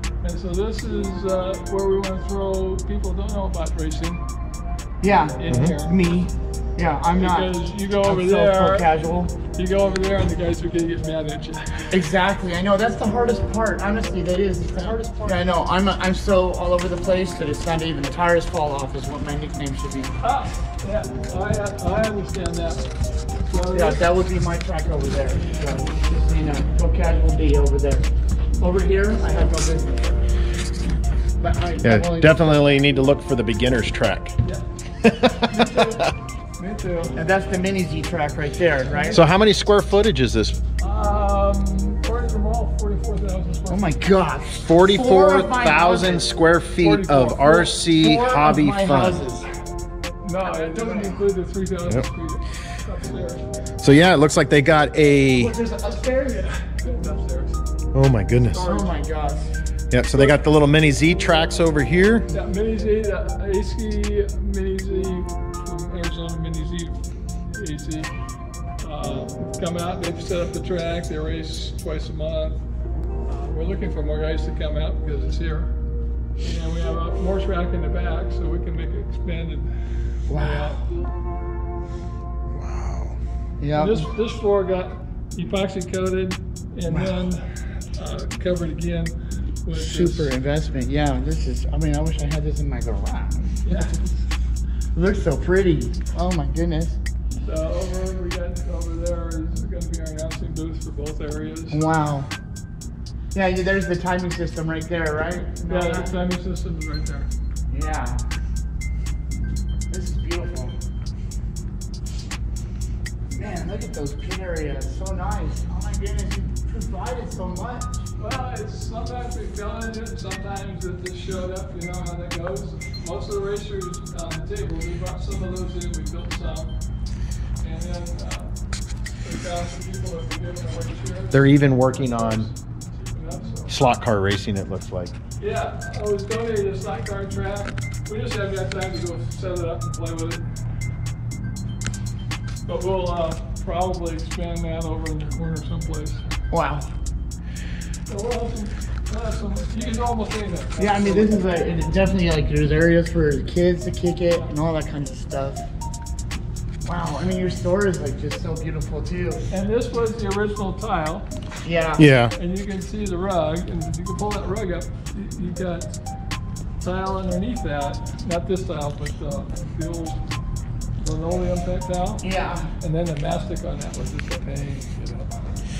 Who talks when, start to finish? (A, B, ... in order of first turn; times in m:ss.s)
0:00.2-0:04.2 A
0:05.0-0:09.3 B
0:05.4-0:06.0 A
0:05.5-0:05.8 C
0:07.1-0:08.9 A
0:09.4-0:12.0 A
0:11.9-0:20.1 B
0:20.2-0:24.1 A
0:23.6-0:28.0 B
0:28.6-0:30.2 B
0:31.4-0:32.8 B
0:31.8-0:34.4 C
0:35.0-0:36.1 C
0:35.2-0:37.2 A
0:37.2-0:39.2 B
0:38.8-0:39.2 A
0:39.1-0:40.6 C
0:40.8-0:44.1 A
0:43.7-0:46.3 B
0:44.6-0:49.2 C
0:46.8-0:47.8 A
0:47.9-0:49.5 B
0:50.2-0:53.5 A
0:50.4-0:51.2 B
0:53.8-0:55.5 C
0:55.3-0:56.5 B
0:55.9-0:57.6 A
0:57.9-0:58.7 C
0:58.5-0:59.1 A
0:58.5-0:59.5 B
0:59.9-1:02.3 C
1:02.3-1:08.1 A
1:08.8-1:12.6 A
1:13.3-1:15.7 A
1:16.4-1:19.7 A
1:20.2-1:20.9 A
1:20.3-1:20.8 B
1:22.5-1:23.2 C
1:23.6-1:24.1 B
1:23.7-1:30.3 A
1:26.9-1:27.2 B
1:29.7-1:33.7 B
1:33.6-1:34.2 A
1:34.9-1:37.0 B
1:37.4-1:41.8 A
1:41.7-1:42.3 B
1:43.3-1:46.1 B
1:45.7-1:47.3 A
1:47.7-1:48.2 B
1:49.9-1:50.7 B
1:53.3-1:58.0 B
1:58.2-2:06.7 A
2:07.6-2:13.8 A
2:11.3-2:12.5 C
2:13.7-2:15.2 C
2:15.4-2:20.5 A
2:22.7-2:26.2 A
2:26.5-2:26.9 B
2:28.1-2:31.5 A
2:30.8-2:35.6 B
2:36.8-2:39.5 B
2:39.5-2:41.3 A
2:41.6-2:42.1 B
2:42.0-2:42.3 C
2:42.3-2:46.0 A
2:46.8-2:50.2 A
2:51.0-2:52.3 A
2:52.2-2:52.7 B
2:52.8-2:55.6 A